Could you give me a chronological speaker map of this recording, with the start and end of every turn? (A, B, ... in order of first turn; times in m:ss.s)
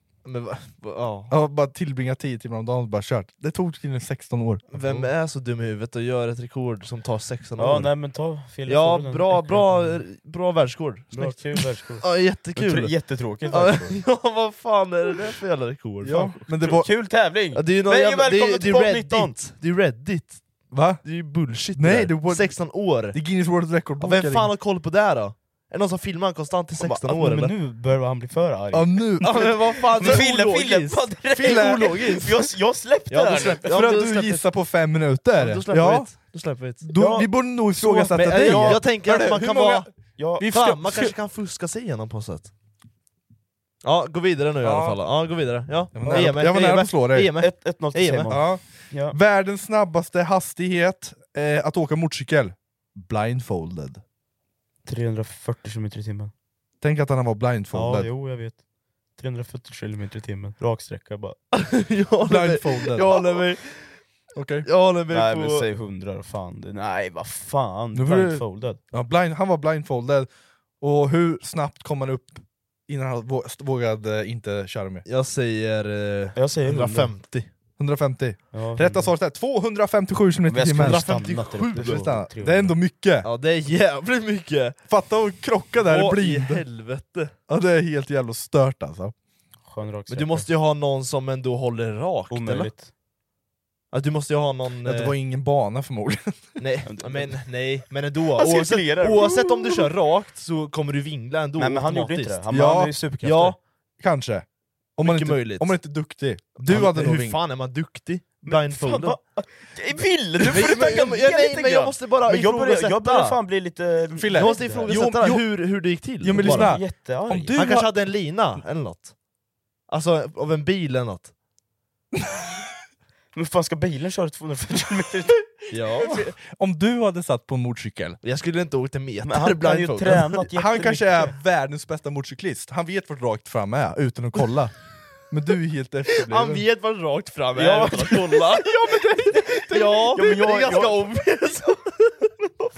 0:00.2-0:01.3 A
0:01.3-0:05.1 B
0:04.7-0:07.9 A
0:07.6-0:10.0 C
0:08.6-0:12.9 A
0:11.1-0:14.0 C
0:13.5-0:16.3 A
0:16.0-0:16.9 B
0:16.1-0:19.4 C
0:17.5-0:23.2 A
0:20.7-0:21.0 B
0:21.7-0:24.5 B
0:24.0-0:27.5 A
0:26.8-0:33.8 C
0:28.7-0:30.2 B
0:29.2-0:32.2 A
0:31.4-0:32.2 B
0:33.1-0:34.4 A
0:33.7-0:36.1 B
0:35.4-0:36.8 A
0:36.8-0:39.9 B
0:36.9-0:38.8 C
0:38.1-0:39.9 A
0:40.2-0:40.5 C
0:40.4-0:41.1 B
0:40.5-0:42.5 A
0:43.8-0:48.3 A
0:44.6-0:45.0 B
0:45.9-0:47.3 B
0:46.0-0:46.3 C
0:47.4-0:49.2 C
0:48.3-0:54.0 B
0:54.8-0:56.3 C
0:56.8-0:58.1 B
0:57.7-0:58.6 C
0:59.2-1:01.4 C
1:01.5-1:03.9 A
1:02.2-1:03.1 B
1:04.4-1:04.6 B
1:04.6-1:05.7 A
1:05.1-1:08.8 C
1:07.9-1:10.3 B
1:10.8-1:15.0 B
1:15.1-1:17.5 A
1:16.4-1:17.1 C
1:17.8-1:21.1 B
1:18.5-1:19.1 C
1:20.5-1:22.8 C
1:20.8-1:22.1 A
1:21.7-1:23.3 B
1:23.2-1:24.8 A
1:24.9-1:26.6 B
1:25.9-1:27.3 A
1:27.5-1:29.1 B
1:29.6-1:30.5 C
1:30.1-1:32.7 A
1:32.3-1:32.9 C
1:33.9-1:35.1 A
1:34.8-1:36.4 B
1:36.6-1:42.4 A
1:36.8-1:37.4 C
1:38.3-1:39.5 C
1:41.6-1:43.6 C
1:42.5-1:42.9 B
1:43.2-1:43.6 A
1:44.0-1:44.4 B
1:45.0-1:47.4 B
1:45.0-1:45.7 A
1:46.6-1:49.2 A
1:48.4-1:55.1 C
1:50.4-1:53.4 A
1:54.1-1:57.9 B
1:54.3-1:56.8 A
1:56.3-1:57.6 C
1:57.5-1:59.1 A
1:59.9-2:01.3 A
2:03.3-2:05.4 C
2:05.7-2:06.2 A
2:06.0-2:08.2 B
2:08.2-2:10.4 A
2:09.2-2:11.3 C
2:10.5-2:14.7 B
2:15.3-2:16.6 B
2:16.2-2:18.7 A
2:17.5-2:18.6 C
2:18.6-2:20.2 B
2:19.4-2:21.4 C
2:19.7-2:22.1 A